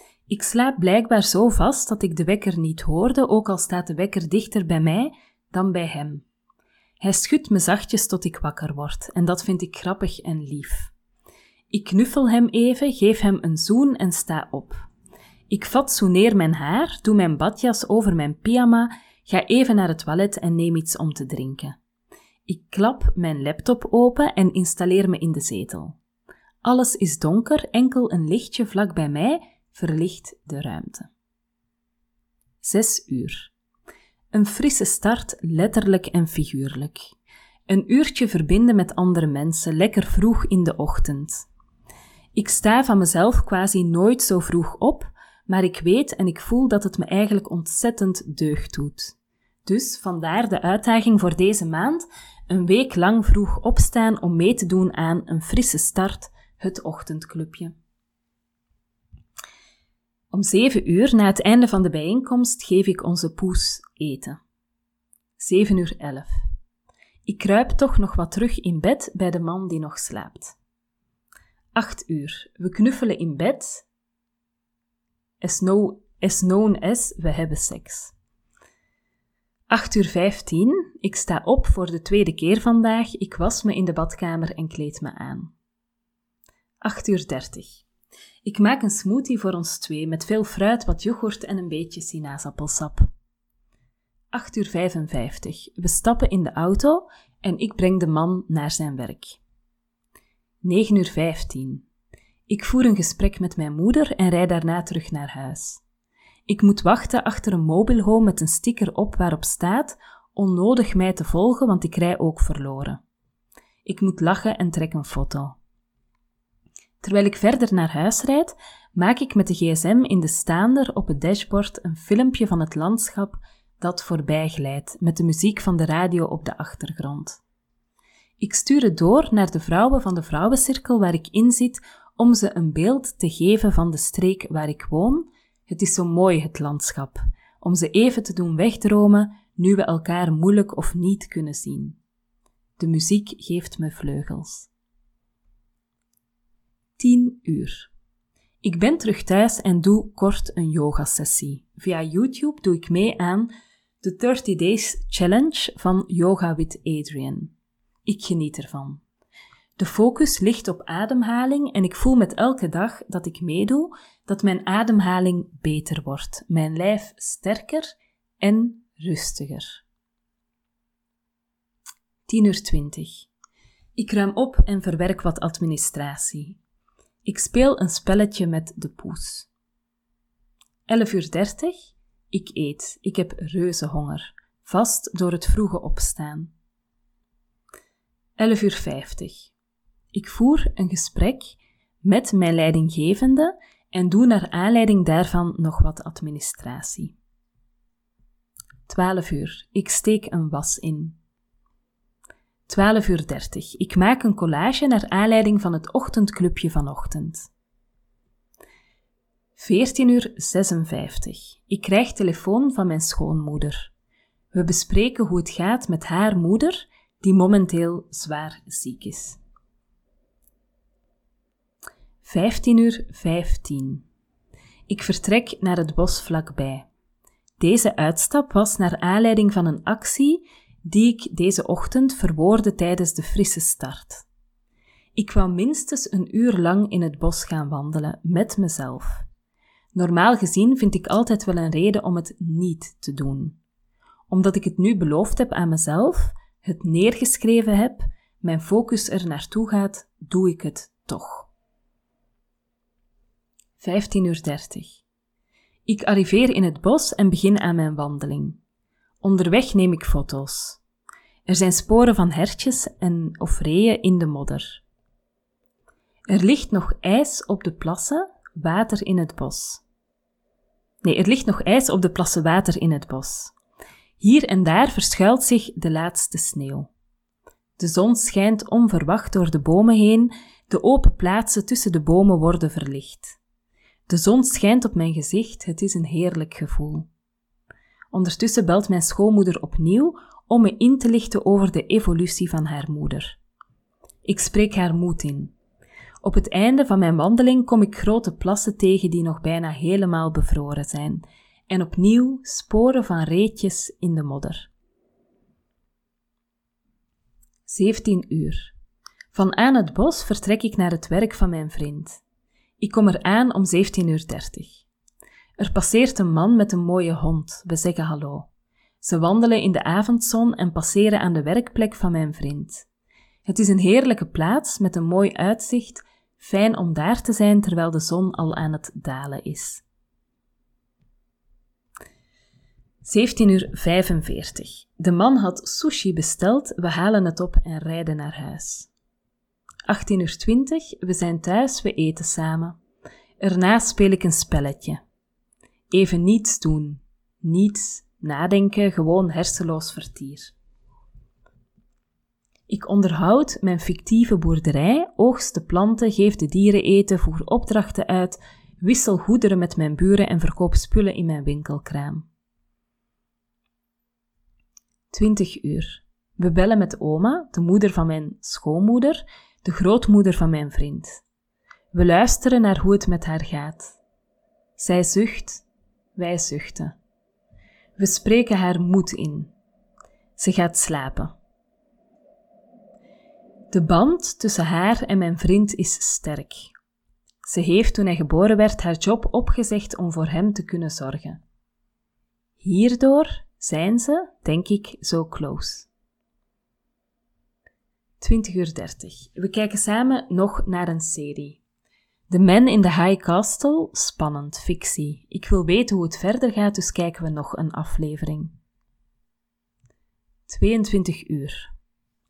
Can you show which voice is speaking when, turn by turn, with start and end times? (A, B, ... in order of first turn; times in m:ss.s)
0:00.3-0:06.2 A
0:07.0-0:10.9 A
0:11.7-0:14.9 A
0:15.5-0:21.8 A
0:22.5-0:26.0 A
0:26.6-0:31.1 A
0:32.6-0:33.5 A
0:34.3-0:37.1 A
0:37.7-0:41.5 A
0:42.4-0:57.7 A
1:00.3-1:04.4 A
1:05.4-1:06.4 A
1:07.2-1:10.6 A
1:11.7-1:13.9 A
1:15.4-1:18.1 A
1:19.7-1:25.5 A
1:26.8-1:27.8 A
1:28.4-1:33.1 A
1:34.3-1:39.4 A
1:40.6-1:41.9 A
1:42.5-1:45.8 A
1:46.5-1:53.0 A
1:53.8-1:55.6 A
1:57.0-2:07.4 A
2:08.4-2:22.0 A
2:22.8-2:24.7 A
2:27.0-2:27.9 A
2:28.6-2:33.5 A
2:34.0-2:37.5 A
2:38.1-2:39.0 A
2:39.8-2:49.8 A
2:52.3-2:53.3 A
2:54.0-2:56.6 A
2:57.2-2:59.5 A
3:00.9-3:06.5 A
3:08.4-3:09.5 A
3:10.1-3:17.2 A
3:18.9-3:21.2 A
3:22.7-3:27.5 A
3:29.6-3:33.9 A
3:34.5-3:39.4 A
3:42.2-3:44.1 A
3:44.9-3:46.9 A
3:47.6-3:54.3 A
3:55.2-3:59.2 A
3:59.9-4:03.6 A
4:04.3-4:11.5 A
4:13.8-4:15.0 A
4:15.9-4:18.6 A
4:19.2-4:20.8 A
4:21.5-4:24.8 A
4:26.3-4:29.8 A
4:31.0-4:33.6 A
4:34.2-4:36.9 A
4:37.8-4:43.4 A
4:44.1-4:47.1 A
4:48.1-4:53.4 A
4:54.2-4:55.5 A
4:56.2-5:04.7 A
5:07.7-5:08.7 A
5:09.3-5:12.2 A
5:12.8-5:14.8 A
5:15.6-5:18.5 A
5:19.0-5:22.9 A
5:23.5-5:29.8 A
5:33.0-5:38.9 A
5:39.9-5:42.8 A
5:43.4-5:45.0 A
5:45.9-5:50.5 A
5:52.7-6:02.3 A
6:05.1-6:11.2 A
6:11.9-6:14.0 A
6:14.8-6:15.6 A
6:16.2-6:17.0 A
6:18.0-6:19.5 A
6:20.4-6:21.3 A
6:23.7-6:26.7 A
6:27.4-6:31.4 A
6:32.6-6:35.9 A
6:38.2-6:41.6 A
6:42.3-6:48.6 A
6:50.5-6:51.7 A